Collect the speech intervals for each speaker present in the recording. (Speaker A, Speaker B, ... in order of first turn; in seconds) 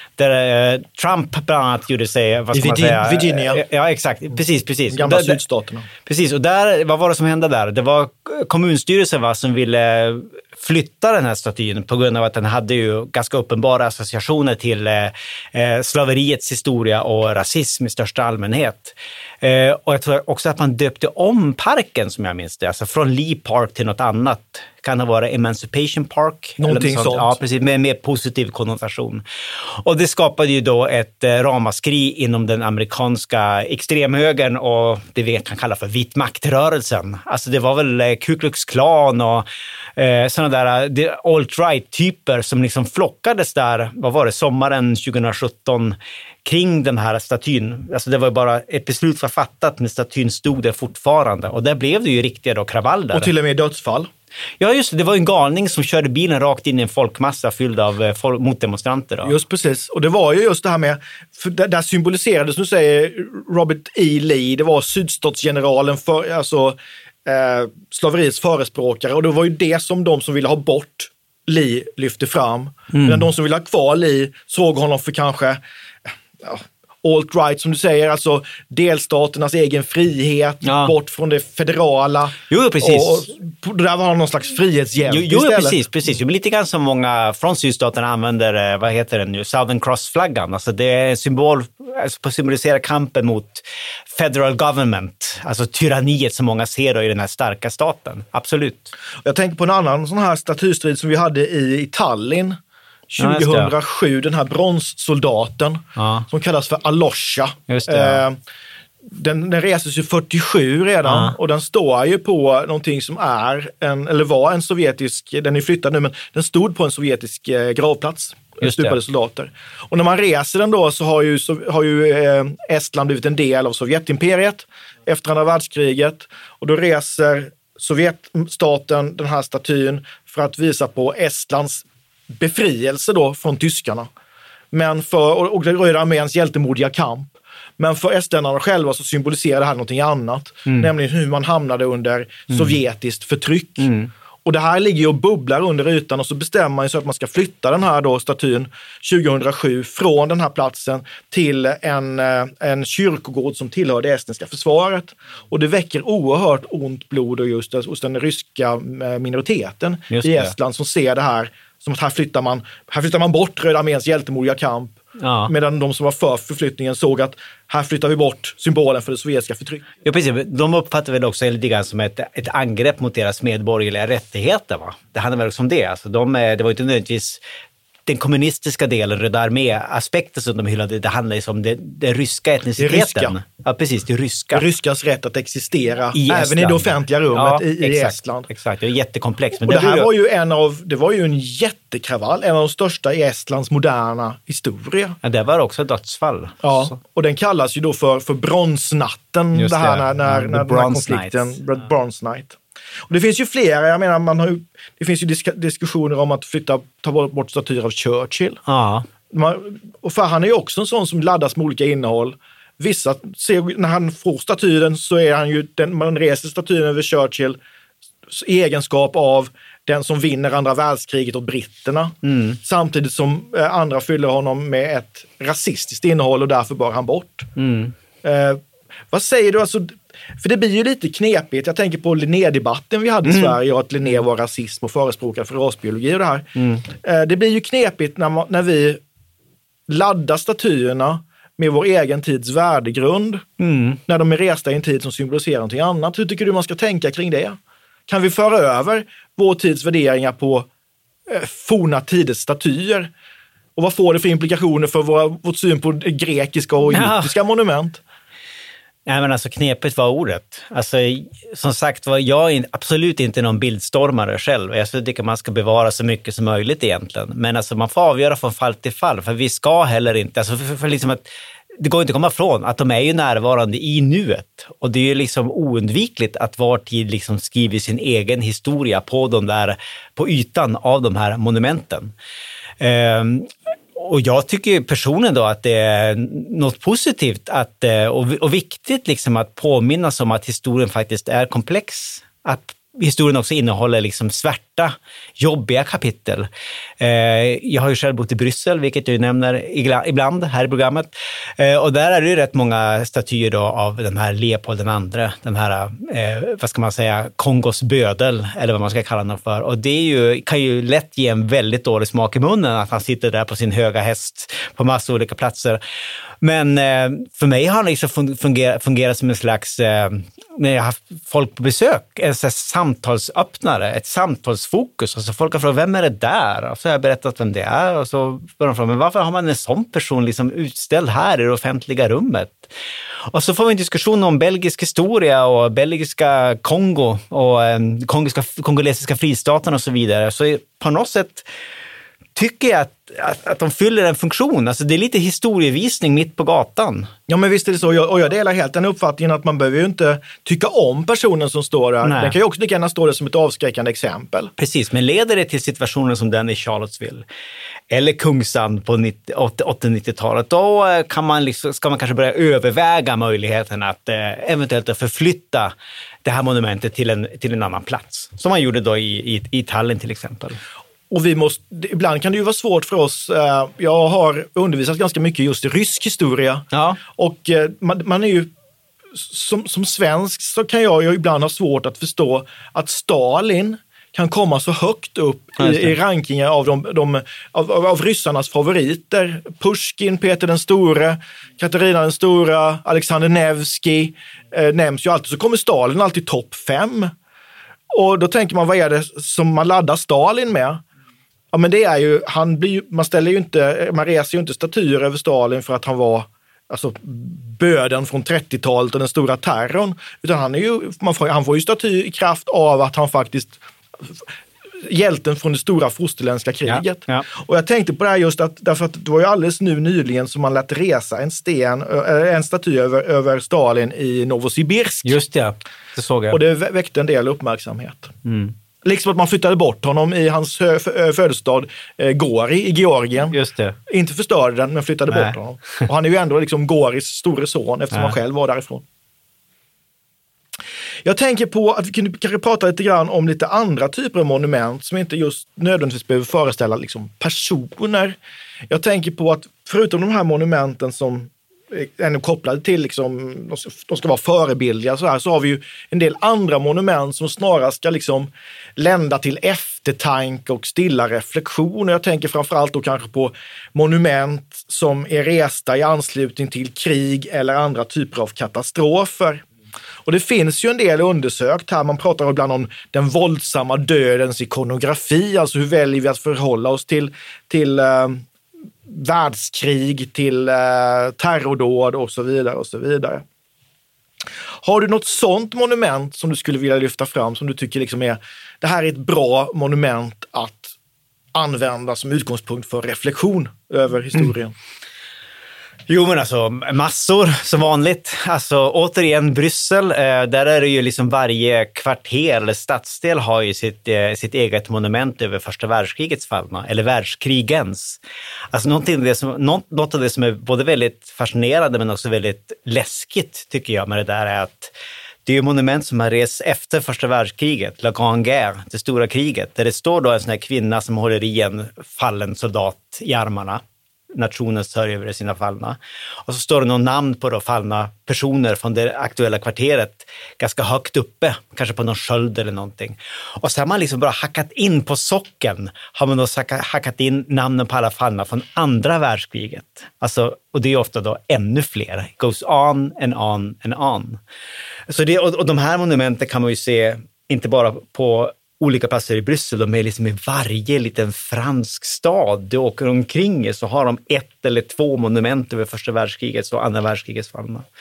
Speaker A: 0.2-5.4, 6.1-29.2, 29.8-53.3, 54.6-59.4, 72.9-73.3, 80.6-80.9, 82.5-83.3, 85.1-98.9, 103.2-103.7, 106.0-106.3, 107.7-108.2, 111.0-111.4, 118.6-119.0, 142.5-142.8, 143.8-144.1, 160.1-160.5, 165.2-165.5, 170.0-177.4, 178.1-184.7, 186.1-190.1, 195.2-197.0, 199.6-201.6, 208.7-209.1, 222.2-222.6, 227.6-228.0, 233.2-233.6, 236.6-236.8, 243.6-244.0, 256.9-257.3, 259.1-271.3, 271.8-282.1, 282.8-296.5, 297.0-315.8, 316.4-332.7, 333.3-341.5, 342.4-347.1, 352.0-352.4, 354.6-357.2, 357.9-365.7, 366.2-370.6, 376.7-377.0, 385.6-386.0, 416.7-417.2, 425.0-426.4, 428.2-428.6, 433.3-433.8, 435.1-435.4, 495.9-508.0, 508.5-514.7, 515.2-523.6, 524.1-544.2, 544.9-557.6
Speaker B: 2.5-3.6, 4.9-5.9, 26.6-27.4, 53.1-54.1, 59.2-85.8, 99.2-102.6, 103.1-108.4, 109.1-134.1, 134.7-143.9, 144.4-169.9, 182.8-183.4, 184.5-188.5, 189.6-195.2, 196.6-208.6, 209.3-217.6, 218.3-227.5, 228.2-239.0, 239.9-243.5, 244.1-250.7, 251.3-253.1, 253.8-258.0, 347.3-354.5, 371.1-378.5, 379.1-397.1, 397.9-400.8, 401.5-414.2, 414.8-425.2, 426.3-428.1, 428.8-438.8, 441.0-448.2, 448.7-469.4, 470.1-478.2, 478.9-483.2, 484.6-490.8, 491.3-494.5